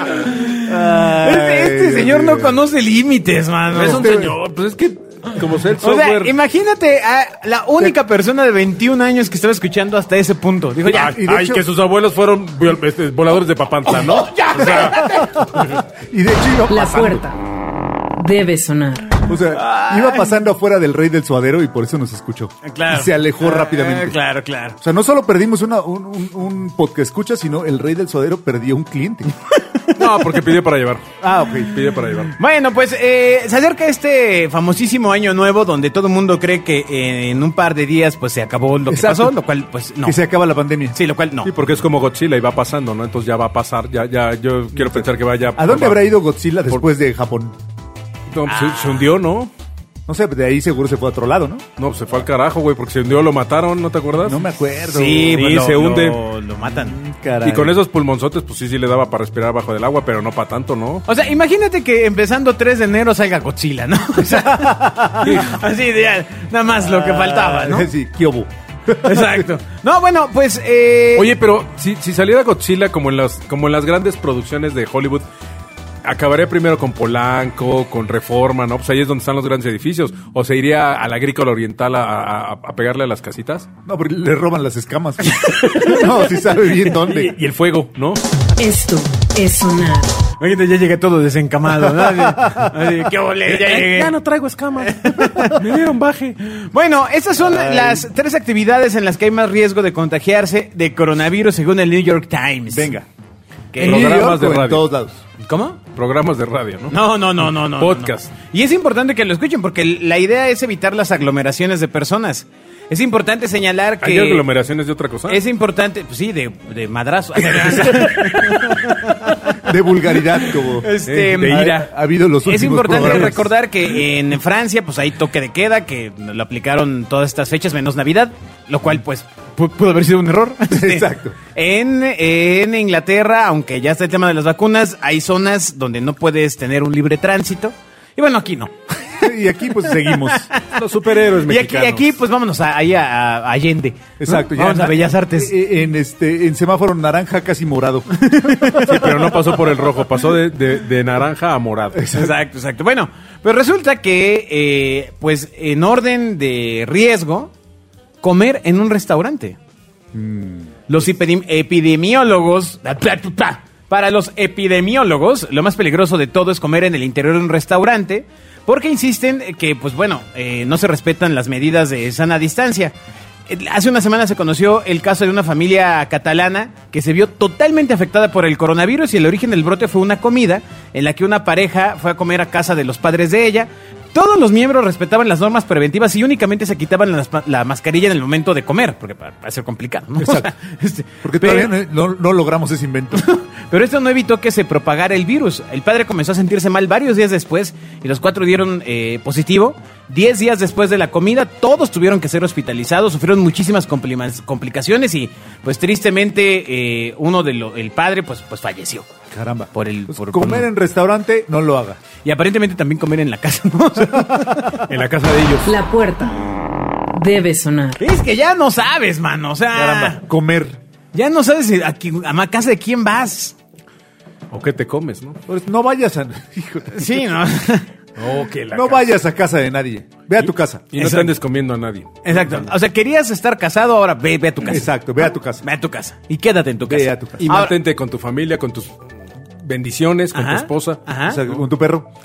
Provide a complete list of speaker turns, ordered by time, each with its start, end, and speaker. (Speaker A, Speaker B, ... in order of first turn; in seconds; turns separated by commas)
Speaker A: 0.2-4.2, Speaker B: 0.6-2.6, Speaker C: 3.7-6.3, Speaker B: 3.7-4.3, Speaker A: 5.8-11.2, Speaker B: 10.8-11.6, Speaker C: 10.8-15.8, Speaker A: 13.9-15.5, Speaker B: 14.9-17.2, Speaker D: 16.7-17.4, Speaker D: 18.1-19.2, Speaker B: 19.2-24.2, Speaker A: 19.4-20.3, Speaker A: 22.6-24.8, Speaker B: 24.8-29.3, Speaker A: 29.6-30.4, Speaker C: 29.9-32.4, Speaker B: 31.2-31.8, Speaker A: 32.4-40.2, Speaker B: 38.9-39.4, Speaker B: 40.0-41.0, Speaker A: 40.9-41.5, Speaker C: 41.4-46.1, Speaker B: 44.8-45.0, Speaker B: 45.6-47.6, Speaker C: 48.3-49.5, Speaker A: 48.5-49.1, Speaker B: 50.1-51.6, Speaker C: 51.8-54.4, Speaker B: 54.2-55.4, Speaker A: 54.9-57.0, Speaker C: 55.3-56.2, Speaker B: 56.7-57.8, Speaker C: 57.4-61.0, Speaker A: 61.1-67.9, Speaker B: 64.3-65.4, Speaker C: 65.2-65.6, Speaker B: 66.8-69.4, Speaker A: 69.0-71.3, Speaker C: 71.2-75.2, Speaker C: 76.0-83.7, Speaker B: 83.8-87.3, Speaker C: 85.5-86.1, Speaker A: 85.5-86.1, Speaker C: 86.8-88.2, Speaker D: 88.6-90.1, Speaker A: 90.4-94.1, Speaker B: 91.8-92.7, Speaker C: 93.4-96.4, Speaker A: 94.8-95.7, Speaker A: 96.4-102.9, Speaker B: 97.4-98.1, Speaker B: 102.7-103.0, Speaker A: 103.7-104.3, Speaker C: 103.8-104.9, Speaker B: 103.8-105.2, Speaker A: 105.4-105.8, Speaker C: 105.9-108.3, Speaker A: 106.9-114.5, Speaker C: 114.0-115.4, Speaker A: 115.3-119.7, Speaker C: 117.4-118.7, Speaker B: 119.6-123.5, Speaker A: 120.6-121.9, Speaker C: 121.0-121.8, Speaker A: 122.4-139.3, Speaker C: 122.9-123.3, Speaker B: 130.7-131.3, Speaker B: 139.2-140.5, Speaker A: 139.8-140.8, Speaker C: 140.7-142.1, Speaker A: 141.3-145.5, Speaker B: 144.2-148.7, Speaker A: 148.2-149.3, Speaker C: 148.7-152.1, Speaker B: 151.9-152.3, Speaker A: 152.1-157.5, Speaker A: 158.2-159.6, Speaker B: 160.1-160.7, Speaker A: 160.9-172.9, Speaker A: 173.5-191.7, Speaker B: 190.2-190.5, Speaker B: 191.2-193.2, Speaker A: 193.1-209.1, Speaker B: 209.3-212.0, Speaker A: 209.7-210.7, Speaker A: 212.2-214.8, Speaker C: 214.8-215.7, Speaker D: 215.6-216.4, Speaker D: 217.1-218.0, Speaker A: 218.0-220.2, Speaker B: 219.7-220.8, Speaker A: 221.1-223.6, Speaker C: 224.5-225.4, Speaker B: 225.5-227.2, Speaker A: 226.9-227.9, Speaker C: 228.2-229.1, Speaker B: 228.7-230.9, Speaker C: 230.9-232.7, Speaker A: 231.0-231.3, Speaker A: 232.2-234.9, Speaker B: 234.6-235.6, Speaker A: 235.6-237.8, Speaker B: 236.8-237.5, Speaker C: 237.4-239.0, Speaker C: 239.6-241.0, Speaker A: 240.3-241.4, Speaker B: 241.2-242.1